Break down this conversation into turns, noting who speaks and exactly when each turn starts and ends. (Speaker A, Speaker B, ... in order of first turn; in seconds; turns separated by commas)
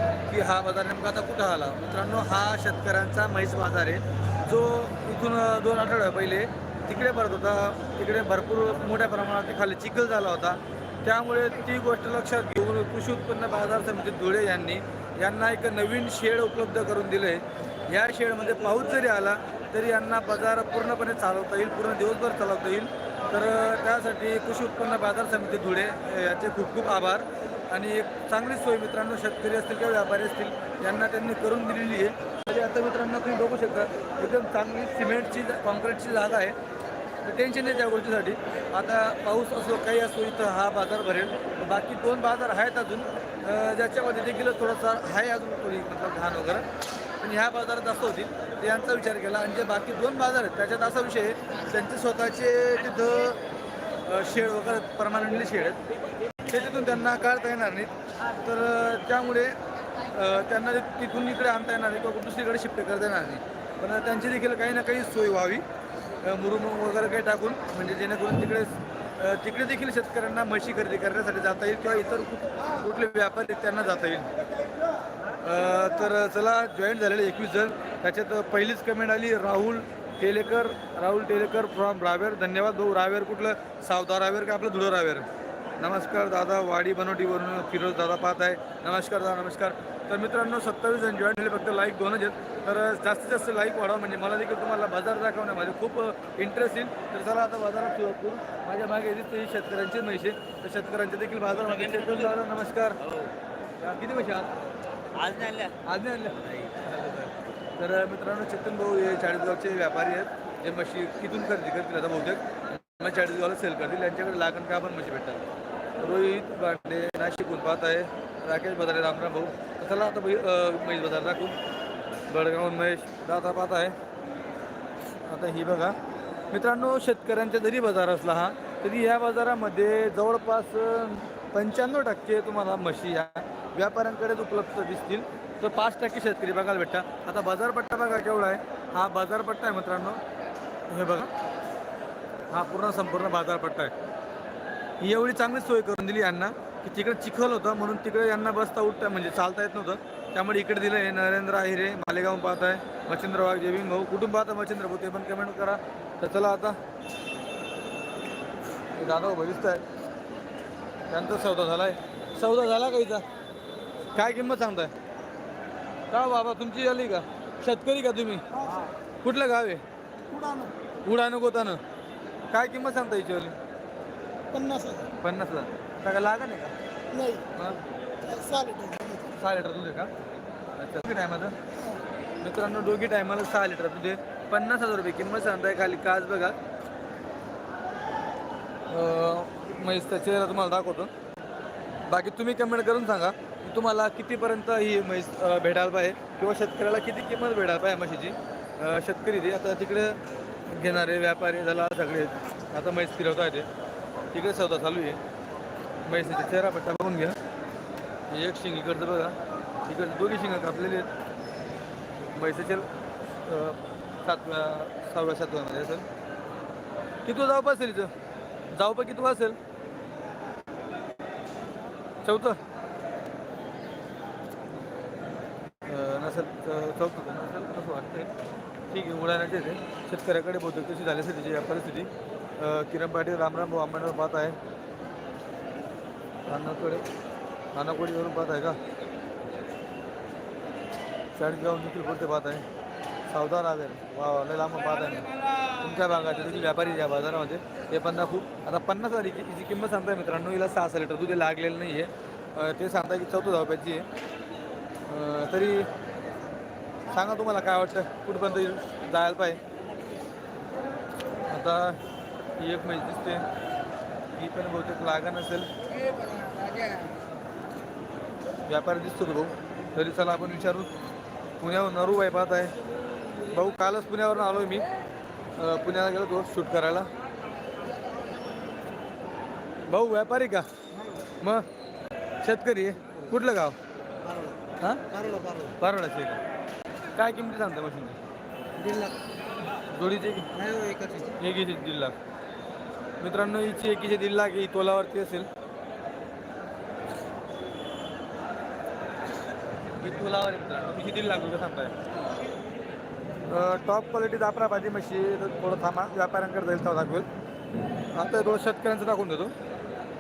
Speaker A: 0.3-36.6, Speaker A: 37.2-46.7, Speaker A: 47.2-53.4, Speaker A: 54.0-55.8, Speaker A: 56.5-59.6, Speaker A: 60.1-65.6, Speaker A: 66.2-74.3, Speaker A: 75.4-85.3, Speaker A: 85.8-103.0, Speaker B: 101.6-102.3, Speaker B: 103.0-103.3, Speaker A: 103.8-104.5, Speaker B: 105.2-105.8, Speaker A: 105.8-106.4, Speaker B: 106.3-107.3, Speaker A: 107.8-115.4, Speaker A: 116.0-121.6, Speaker A: 122.3-124.0, Speaker A: 125.2-126.0, Speaker A: 126.5-140.2, Speaker A: 140.9-141.3, Speaker A: 142.5-143.9, Speaker A: 145.0-156.8, Speaker A: 158.9-159.8, Speaker A: 161.1-163.3, Speaker A: 164.2-164.9, Speaker A: 166.1-168.4, Speaker C: 168.5-168.9, Speaker A: 169.2-169.8, Speaker C: 170.3-170.7, Speaker A: 171.1-171.8, Speaker A: 172.5-173.6, Speaker C: 174.5-175.1, Speaker A: 175.2-176.7, Speaker C: 177.1-177.5, Speaker A: 177.5-177.8, Speaker C: 178.2-179.3, Speaker A: 179.3-180.1, Speaker A: 180.8-181.6, Speaker A: 182.4-186.6, Speaker A: 188.9-191.1, Speaker A: 192.1-203.7, Speaker A: 204.3-205.2, Speaker A: 206.1-207.4, Speaker A: 208.3-211.1, Speaker A: 212.3-212.9, Speaker A: 213.4-216.1, Speaker A: 217.2-218.1, Speaker A: 218.7-219.6, Speaker A: 222.2-222.6, Speaker A: 225.9-228.3, Speaker A: 228.9-234.6, Speaker A: 236.5-237.1, Speaker A: 237.7-238.8, Speaker A: 241.4-242.7, Speaker A: 243.3-254.1, Speaker A: 255.1-255.9, Speaker A: 257.1-259.6, Speaker A: 261.5-262.0, Speaker A: 262.6-263.4, Speaker A: 264.4-265.7, Speaker B: 266.1-266.9, Speaker C: 266.2-266.9, Speaker A: 268.7-270.9, Speaker A: 271.6-272.7, Speaker A: 273.5-274.9, Speaker A: 275.6-277.1, Speaker A: 279.9-280.7, Speaker A: 282.4-283.8, Speaker C: 284.2-284.6, Speaker C: 285.1-285.7, Speaker A: 285.8-286.4, Speaker A: 287.1-288.2, Speaker C: 288.8-289.1, Speaker A: 289.9-290.5, Speaker C: 290.5-291.3, Speaker A: 291.4-292.1, Speaker A: 293.2-295.5, Speaker A: 300.0-301.9, Speaker A: 303.5-307.3, Speaker A: 308.1-309.5